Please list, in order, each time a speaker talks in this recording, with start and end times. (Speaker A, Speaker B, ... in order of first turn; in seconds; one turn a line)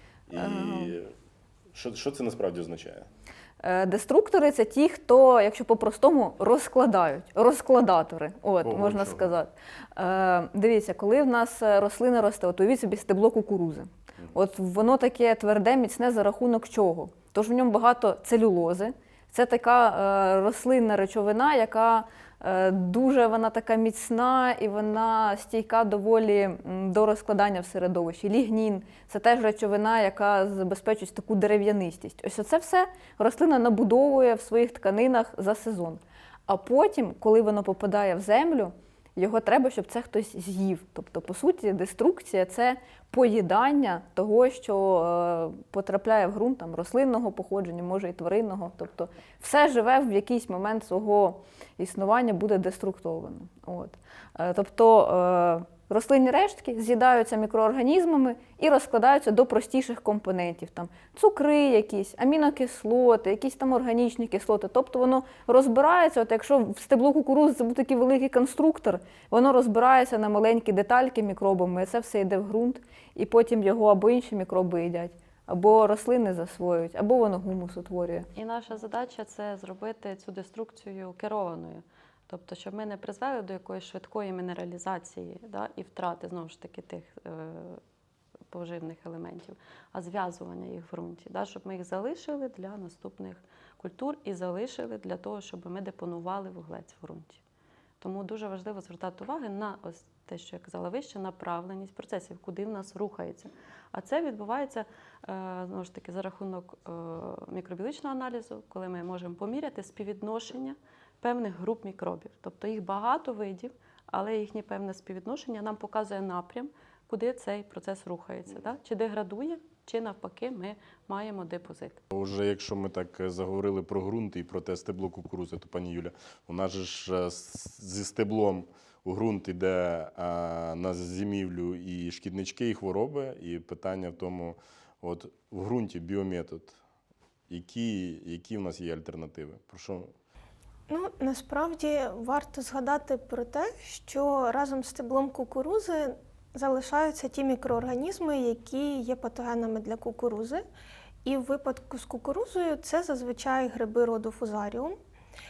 Speaker A: 0.3-1.1
Speaker B: 0.3-1.0
Speaker A: 1.7-3.1
Speaker B: 3.6-78.3
Speaker A: 8.6-9.3
Speaker C: 78.3-87.8
Speaker C: 88.5-97.4
Speaker C: 98.0-122.0
Speaker A: 122.1-136.8
Speaker A: 137.5-140.1
Speaker D: 140.9-150.6
Speaker D: 151.2-155.0